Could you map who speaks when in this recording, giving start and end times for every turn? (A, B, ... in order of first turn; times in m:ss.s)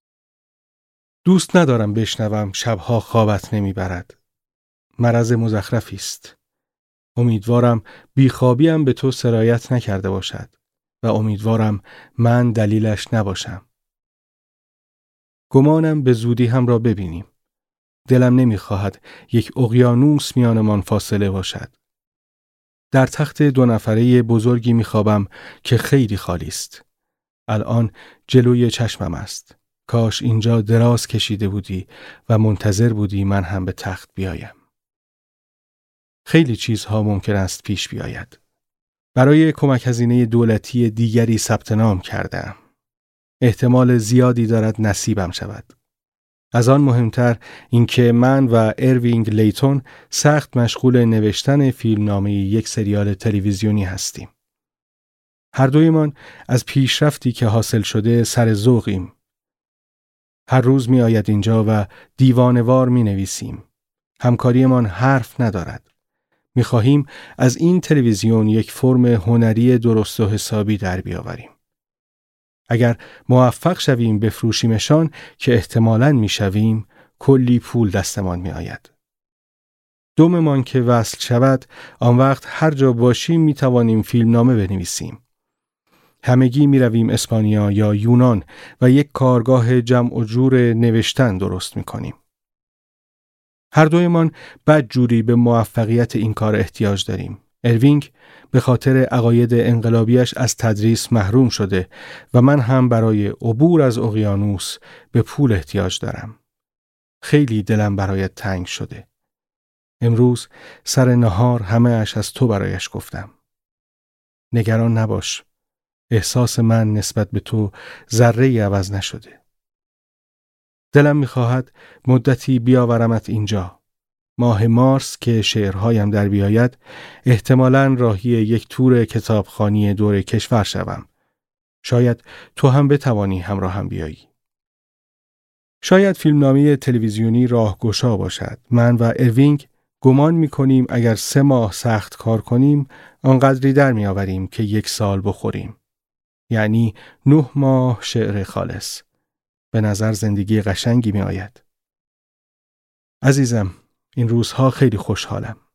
0:01.2-0:04.1 A
0:05.0-0:06.3 A
0:07.2-0:13.6 A
0:15.5-0:17.3 A
0:18.1-0:21.7 A
0:22.9-0:26.8 A
0:27.5-0:34.5 A
0:36.3-0:38.4 A
0:39.2-0:42.6 A
0:43.4-0:45.7 A
0:46.5-0:54.3 A
0:55.5-0:59.1 A
1:00.5-1:03.6 A
1:04.2-1:05.8 A
1:06.5-1:11.5 A
1:12.7-1:18.9 A
1:20.2-1:25.2 A
1:26.2-1:32.2 A
1:33.7-1:46.4 A
1:47.2-1:49.0 A
1:50.0-1:53.3 A
1:54.5-1:55.4 A
1:56.1-1:59.4 A
2:00.9-2:03.8 A
2:04.4-2:11.1 A
2:11.8-2:14.2 A
2:15.8-2:25.8 A
2:26.5-2:29.0 A
2:29.7-2:31.6 A
2:33.2-2:35.6 A